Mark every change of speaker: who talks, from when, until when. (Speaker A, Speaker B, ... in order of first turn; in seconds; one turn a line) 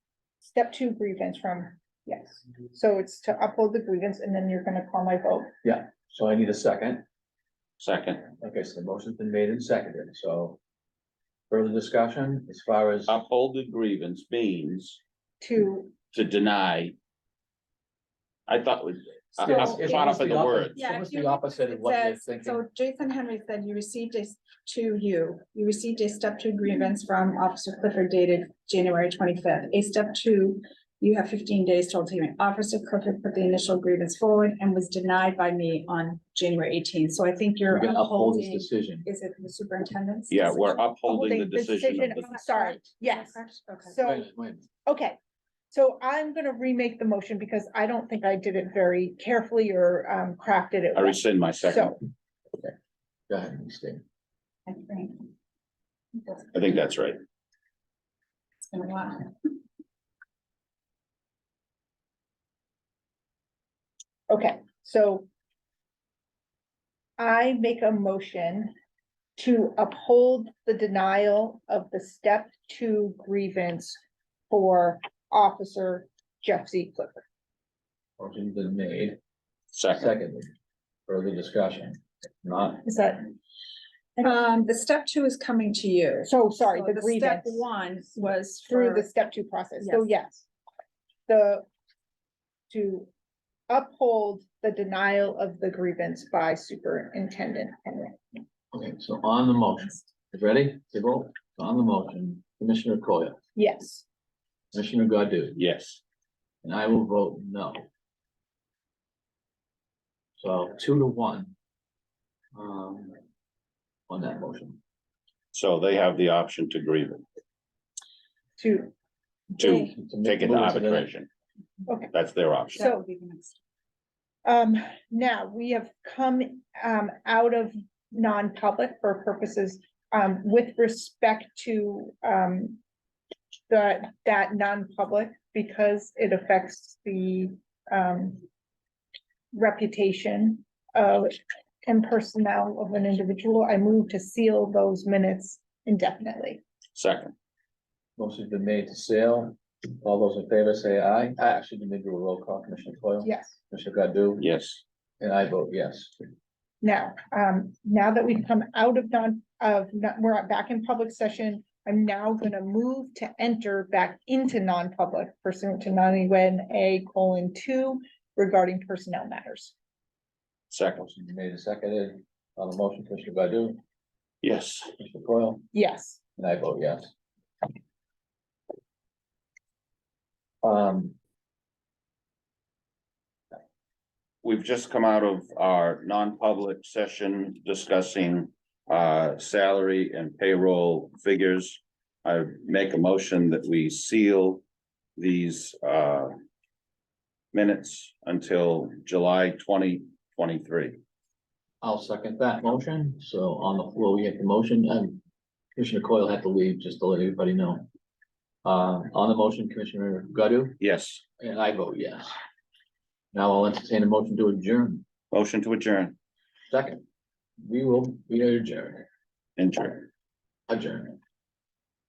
Speaker A: 0.4-5.5
Speaker B: 5.6-7.0
Speaker C: 7.8-8.3
Speaker B: 8.4-10.6
Speaker B: 11.5-13.2
Speaker C: 13.1-15.0
Speaker A: 15.4-15.9
Speaker C: 16.1-16.9
Speaker C: 18.5-20.8
Speaker B: 19.4-22.6
Speaker D: 19.5-19.8
Speaker D: 20.8-40.8
Speaker B: 37.7-39.1
Speaker C: 40.3-42.4
Speaker A: 41.0-44.3
Speaker D: 42.3-44.0
Speaker B: 44.0-44.7
Speaker A: 44.9-45.2
Speaker A: 45.7-52.0
Speaker C: 50.9-52.0
Speaker B: 53.3-54.0
Speaker D: 54.7-55.3
Speaker D: 56.1-56.5
Speaker C: 56.5-57.2
Speaker D: 58.6-59.3
Speaker A: 64.3-65.3
Speaker A: 67.2-68.7
Speaker A: 69.4-74.0
Speaker A: 74.5-77.2
Speaker B: 78.2-79.2
Speaker C: 79.7-80.1
Speaker B: 80.0-80.5
Speaker B: 81.1-82.8
Speaker A: 82.8-83.3
Speaker D: 84.2-89.1
Speaker A: 86.3-87.7
Speaker A: 88.7-90.5
Speaker D: 89.8-90.1
Speaker A: 91.3-91.7
Speaker A: 92.7-93.1
Speaker A: 93.7-98.2
Speaker B: 98.7-103.4
Speaker A: 103.6-104.0
Speaker B: 104.7-105.6
Speaker C: 105.6-106.0
Speaker B: 106.6-107.8
Speaker B: 110.4-111.5
Speaker B: 112.5-113.2
Speaker B: 114.1-114.8
Speaker C: 115.5-117.2
Speaker A: 118.6-118.9
Speaker C: 119.6-121.3
Speaker D: 119.6-119.9
Speaker B: 120.0-121.1
Speaker C: 122.1-122.8
Speaker D: 122.8-123.6
Speaker A: 122.8-123.0
Speaker A: 124.5-132.8
Speaker A: 133.7-138.4
Speaker A: 139.5-146.6
Speaker C: 146.9-147.3
Speaker B: 148.2-154.5
Speaker A: 153.2-153.6
Speaker C: 154.4-154.8
Speaker B: 155.2-156.2
Speaker A: 156.8-169.8
Speaker C: 170.7-171.0
Speaker B: 171.0-173.8
Speaker C: 174.4-174.9
Speaker B: 175.0-175.7
Speaker A: 175.7-176.2
Speaker B: 176.4-177.1
Speaker B: 180.6-181.2
Speaker C: 184.4-194.6
Speaker C: 195.2-196.3
Speaker C: 197.5-201.0
Speaker B: 201.8-205.2
Speaker B: 205.8-207.9
Speaker B: 208.7-210.8
Speaker C: 210.8-211.2
Speaker B: 211.4-212.3
Speaker B: 213.3-215.0
Speaker C: 215.3-216.2
Speaker B: 216.7-217.0
Speaker B: 217.6-219.1
Speaker C: 219.6-220.1
Speaker B: 220.7-221.2